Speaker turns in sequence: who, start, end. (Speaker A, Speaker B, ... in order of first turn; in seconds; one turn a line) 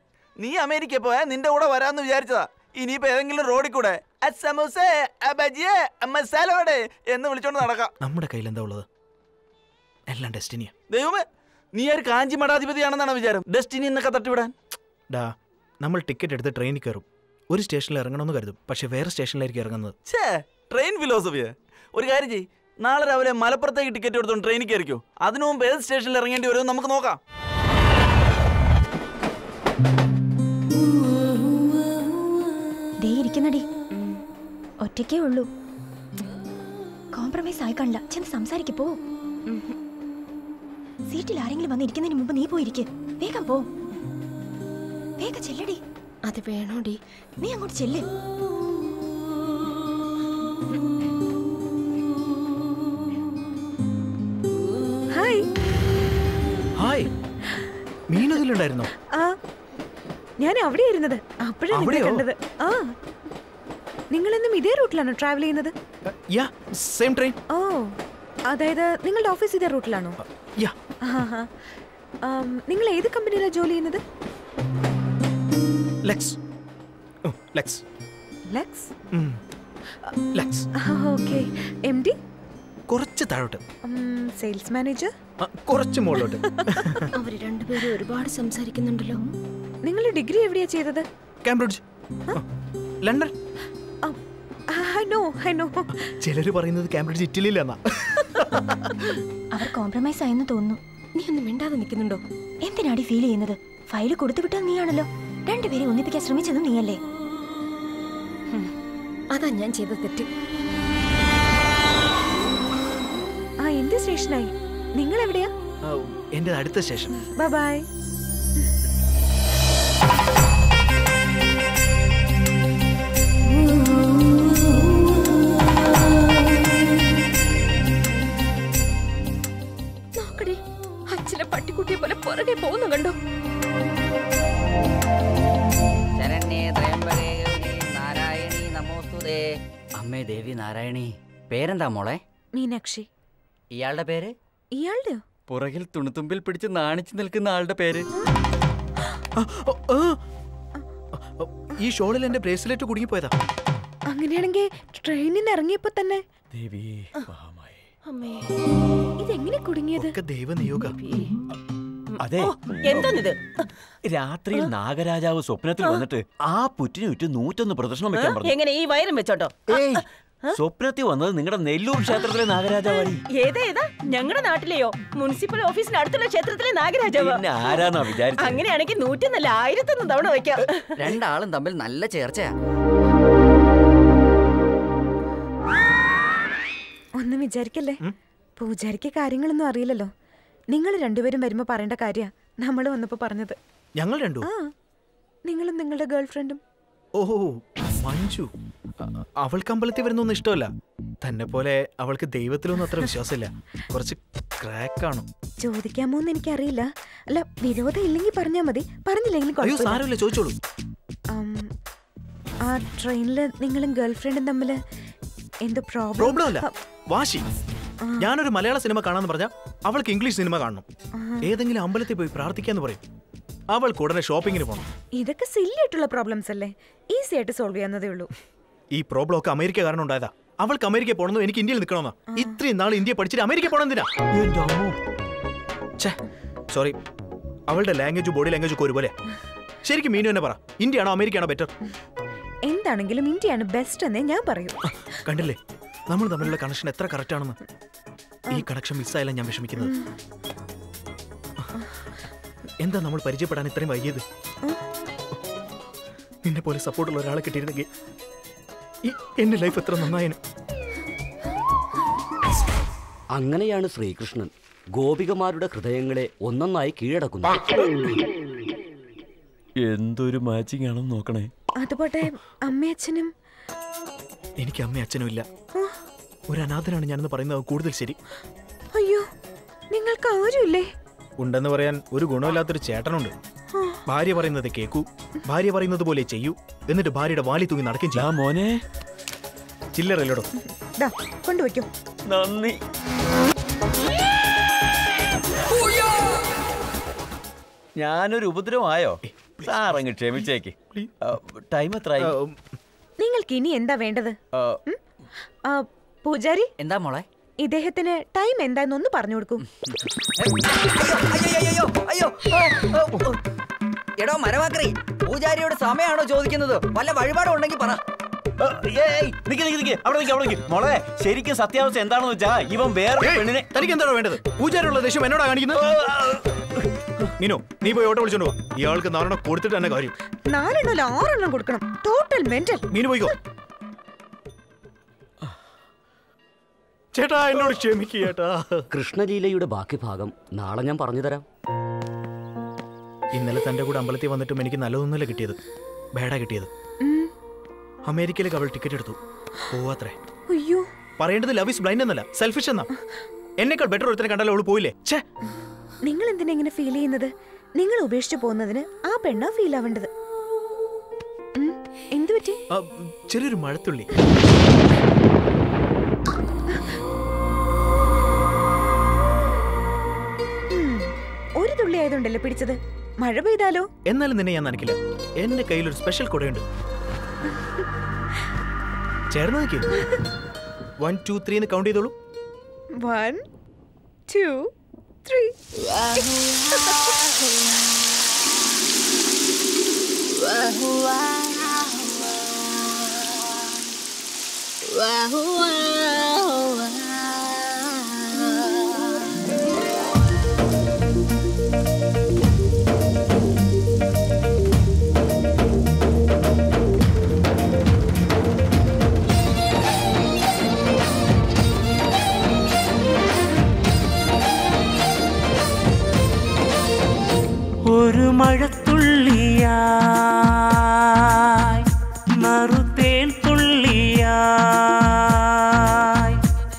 Speaker A: 0.4-7.9
Speaker B: 8.0-8.8
Speaker B: 10.1-10.7
Speaker A: 10.9-11.2
Speaker A: 11.7-14.5
Speaker B: 15.1-19.9
Speaker A: 20.1-27.2
Speaker C: 33.0-34.0
Speaker C: 34.8-35.5
Speaker C: 37.1-39.0
Speaker C: 41.1-43.6
Speaker C: 45.2-45.8
Speaker D: 46.3-47.0
Speaker C: 47.4-48.1
Speaker E: 55.1-55.5
Speaker B: 56.8-57.1
Speaker B: 58.1-58.9
Speaker E: 60.4-62.9
Speaker B: 61.7-62.2
Speaker E: 64.1-65.7
Speaker B: 66.3-67.4
Speaker E: 67.5-67.9
Speaker E: 68.5-70.2
Speaker E: 71.0-71.5
Speaker E: 72.2-74.0
Speaker B: 76.0-76.4
Speaker B: 77.3-77.8
Speaker E: 78.5-78.9
Speaker B: 79.1-79.4
Speaker B: 80.3-80.7
Speaker E: 80.8-82.2
Speaker B: 82.9-83.6
Speaker E: 83.8-85.1
Speaker B: 85.4-87.0
Speaker D: 87.1-89.2
Speaker E: 89.8-91.0
Speaker B: 91.4-91.8
Speaker B: 93.0-93.3
Speaker E: 94.7-95.9
Speaker B: 96.1-98.5
Speaker C: 99.5-100.8
Speaker D: 101.2-102.2
Speaker C: 102.6-107.0
Speaker D: 109.3-110.3
Speaker E: 113.6-115.5
Speaker B: 115.9-117.1
Speaker E: 117.4-117.8
Speaker D: 130.2-130.6
Speaker D: 131.1-133.2
Speaker F: 136.2-139.4
Speaker F: 140.0-142.2
Speaker E: 142.5-143.1
Speaker F: 143.8-144.3
Speaker E: 144.7-145.2
Speaker G: 145.5-148.0
Speaker B: 149.4-150.2
Speaker B: 151.4-153.3
Speaker E: 154.1-156.2
Speaker H: 156.5-157.8
Speaker D: 158.1-158.5
Speaker E: 159.2-160.1
Speaker B: 159.9-160.9
Speaker I: 161.0-161.3
Speaker H: 162.2-163.2
Speaker I: 162.3-163.3
Speaker H: 164.1-168.5
Speaker I: 168.1-170.5
Speaker H: 169.7-173.2
Speaker I: 173.3-177.9
Speaker H: 177.2-178.6
Speaker I: 178.4-180.9
Speaker F: 181.0-182.5
Speaker E: 187.2-188.0
Speaker E: 188.6-190.1
Speaker E: 190.7-193.6
Speaker B: 194.0-194.5
Speaker E: 194.4-194.7
Speaker E: 195.5-196.6
Speaker B: 197.2-198.5
Speaker B: 199.0-200.7
Speaker B: 201.2-205.3
Speaker E: 205.6-210.0
Speaker B: 209.6-210.6
Speaker E: 211.3-211.7
Speaker E: 212.7-214.8
Speaker E: 215.7-216.7
Speaker B: 216.2-217.4
Speaker B: 218.2-220.8
Speaker E: 221.2-221.4
Speaker B: 221.4-223.0
Speaker B: 223.7-224.9
Speaker E: 225.2-228.3
Speaker B: 228.9-234.1
Speaker B: 236.7-237.0
Speaker B: 237.7-239.1
Speaker B: 239.8-241.7
Speaker E: 242.7-244.8
Speaker B: 245.2-245.6
Speaker B: 246.1-247.6
Speaker B: 248.5-249.9
Speaker E: 249.8-250.1
Speaker B: 252.8-254.2
Speaker B: 256.4-257.9
Speaker B: 259.0-260.4
Speaker J: 263.3-267.9
Speaker H: 269.8-271.5
Speaker E: 271.8-273.3
Speaker B: 274.6-275.4
Speaker B: 276.5-278.2
Speaker E: 278.9-279.3
Speaker E: 279.9-280.9
Speaker B: 281.4-283.3
Speaker B: 284.1-288.3
Speaker H: 288.1-288.8
Speaker B: 289.9-290.5
Speaker E: 291.0-291.9
Speaker H: 292.3-292.8
Speaker H: 298.0-302.3
Speaker B: 302.2-302.6
Speaker E: 303.2-304.4
Speaker H: 304.5-304.8
Speaker E: 305.7-306.7
Speaker F: 306.8-307.2
Speaker E: 307.6-309.6
Speaker F: 310.4-313.2
Speaker F: 314.2-318.0
Speaker H: 318.6-323.7
Speaker B: 323.2-325.9
Speaker B: 327.4-330.1
Speaker E: 330.5-332.9
Speaker B: 332.9-333.3
Speaker B: 337.1-338.9
Speaker J: 338.9-341.4
Speaker B: 343.3-345.6
Speaker B: 346.1-346.7
Speaker E: 347.0-347.3
Speaker B: 348.1-349.2
Speaker B: 349.7-350.1
Speaker E: 350.5-350.9
Speaker B: 351.2-352.9
Speaker B: 353.6-355.2
Speaker E: 356.0-360.1
Speaker E: 361.6-362.6
Speaker B: 362.7-364.1
Speaker E: 370.7-373.9
Speaker B: 374.1-376.6
Speaker B: 379.3-379.9
Speaker B: 381.0-382.1
Speaker E: 383.0-383.4
Speaker E: 384.3-384.7
Speaker E: 385.2-387.1
Speaker K: 417.9-421.9
Speaker K: 422.4-426.4